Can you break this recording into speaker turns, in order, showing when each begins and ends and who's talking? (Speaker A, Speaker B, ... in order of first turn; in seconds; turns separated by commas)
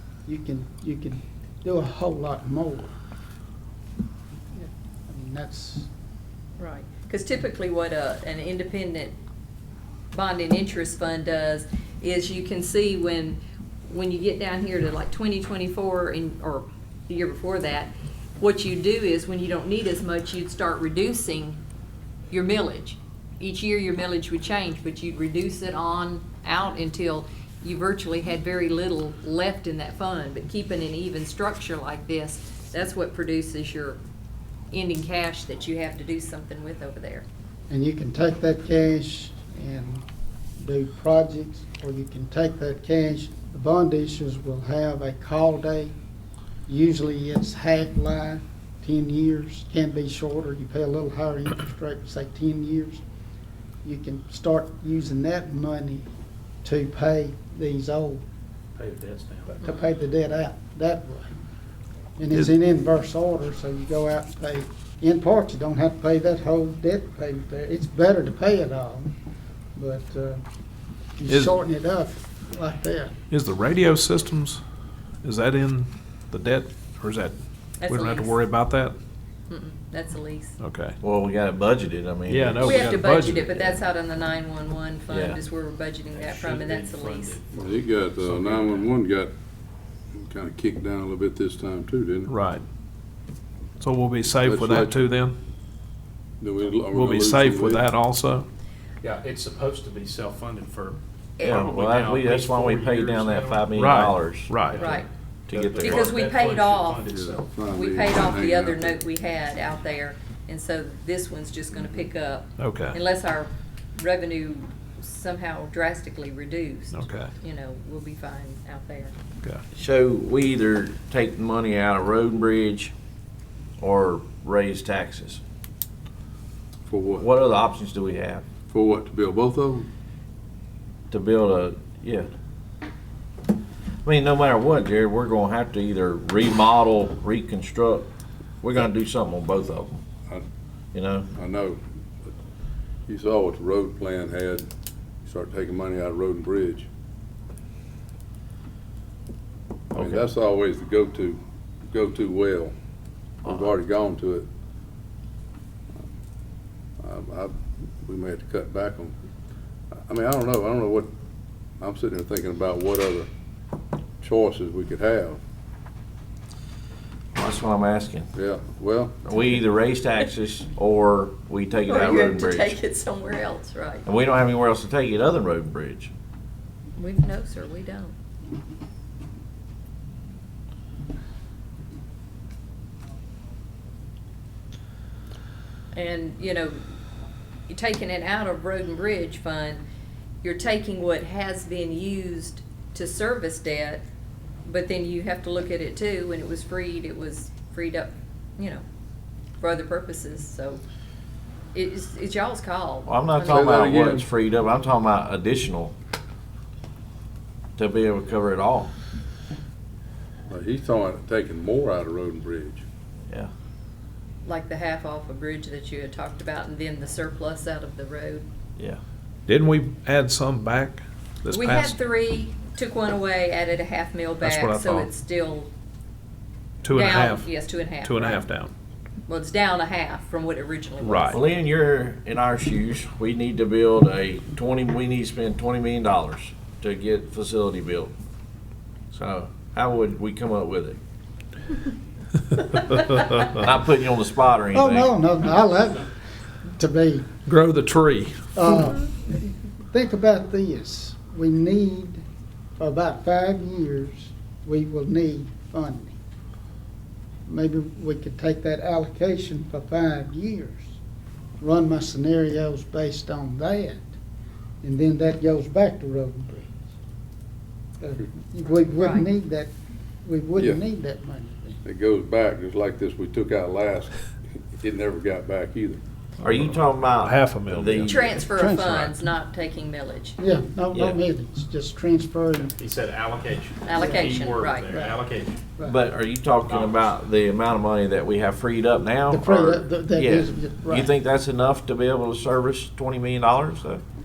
Speaker A: 0.3-3.0, Speaker A: 4.5-5.9, Speaker B: 6.6-9.1, Speaker B: 10.1-21.6, Speaker B: 22.3-34.0, Speaker B: 34.7-37.2, Speaker A: 37.7-40.0, Speaker A: 40.6-46.0, Speaker A: 46.7-53.0, Speaker A: 53.8-56.1, Speaker A: 56.6-58.2, Speaker C: 58.8-59.5, Speaker A: 59.5-61.3, Speaker A: 62.2-69.1, Speaker A: 69.8-70.4, Speaker A: 71.2-73.2, Speaker D: 71.3-71.5, Speaker D: 73.3-74.6, Speaker D: 75.2-79.0, Speaker B: 77.8-78.4, Speaker B: 79.5-80.5, Speaker D: 80.6-81.0, Speaker E: 81.0-83.0, Speaker D: 82.3-83.6, Speaker B: 82.6-87.4, Speaker E: 85.1-85.4, Speaker C: 86.1-88.9, Speaker F: 87.5-89.3, Speaker F: 90.1-92.3, Speaker D: 92.3-92.6, Speaker D: 93.8-95.4, Speaker F: 94.4-95.0, Speaker F: 96.4-97.8, Speaker D: 96.9-98.5, Speaker C: 99.0-103.8, Speaker E: 101.4-104.5, Speaker D: 103.7-104.9, Speaker C: 104.7-107.5, Speaker B: 104.7-105.1, Speaker E: 105.5-106.2, Speaker B: 105.8-107.1, Speaker F: 107.1-109.0, Speaker B: 107.7-119.1, Speaker D: 112.6-113.0, Speaker D: 116.9-117.3, Speaker E: 119.7-122.9, Speaker E: 123.8-125.4, Speaker F: 126.9-127.3, Speaker E: 127.2-128.4, Speaker F: 128.7-129.9, Speaker E: 131.1-132.3, Speaker E: 134.0-138.1, Speaker E: 138.6-140.0, Speaker E: 140.9-141.3, Speaker F: 141.3-142.3, Speaker F: 143.1-144.7, Speaker F: 145.2-146.9, Speaker F: 149.9-152.7, Speaker E: 149.9-150.3, Speaker F: 153.4-154.5, Speaker F: 157.0-159.2, Speaker F: 159.9-161.1, Speaker F: 161.8-163.3, Speaker F: 164.2-165.4, Speaker E: 167.3-168.3, Speaker F: 168.3-169.4, Speaker E: 169.2-172.8, Speaker B: 171.8-174.1, Speaker E: 174.1-176.1, Speaker B: 177.0-178.1, Speaker B: 185.9-186.8, Speaker B: 187.7-189.8, Speaker B: 190.4-194.0, Speaker B: 194.6-198.8, Speaker B: 199.6-200.8, Speaker B: 201.7-204.0, Speaker E: 203.1-205.9, Speaker F: 203.5-204.3, Speaker E: 207.8-208.9, Speaker F: 210.5-212.8, Speaker B: 214.4-218.4, Speaker D: 219.5-221.9, Speaker B: 221.5-225.7, Speaker D: 224.4-225.1, Speaker D: 226.8-228.7, Speaker B: 226.9-228.4, Speaker B: 229.3-231.4, Speaker D: 231.0-231.4, Speaker E: 231.3-238.1, Speaker E: 239.1-241.0, Speaker E: 243.4-245.2, Speaker A: 244.7-246.1, Speaker A: 246.7-247.3, Speaker D: 247.4-248.3, Speaker A: 248.5-252.2, Speaker A: 252.8-256.2, Speaker A: 257.5-261.0, Speaker A: 261.6-264.1, Speaker A: 264.8-266.8, Speaker A: 268.0-269.7, Speaker B: 269.0-269.2, Speaker A: 270.2-271.8, Speaker F: 270.6-270.8, Speaker F: 271.8-274.2, Speaker F: 274.8-276.0, Speaker D: 276.4-278.2, Speaker E: 276.4-278.3, Speaker B: 278.1-280.4, Speaker A: 278.5-279.1, Speaker A: 280.4-282.8, Speaker E: 280.9-281.2, Speaker C: 282.8-285.6, Speaker B: 283.9-285.1, Speaker A: 283.9-285.1, Speaker E: 285.8-294.0, Speaker A: 289.3-291.1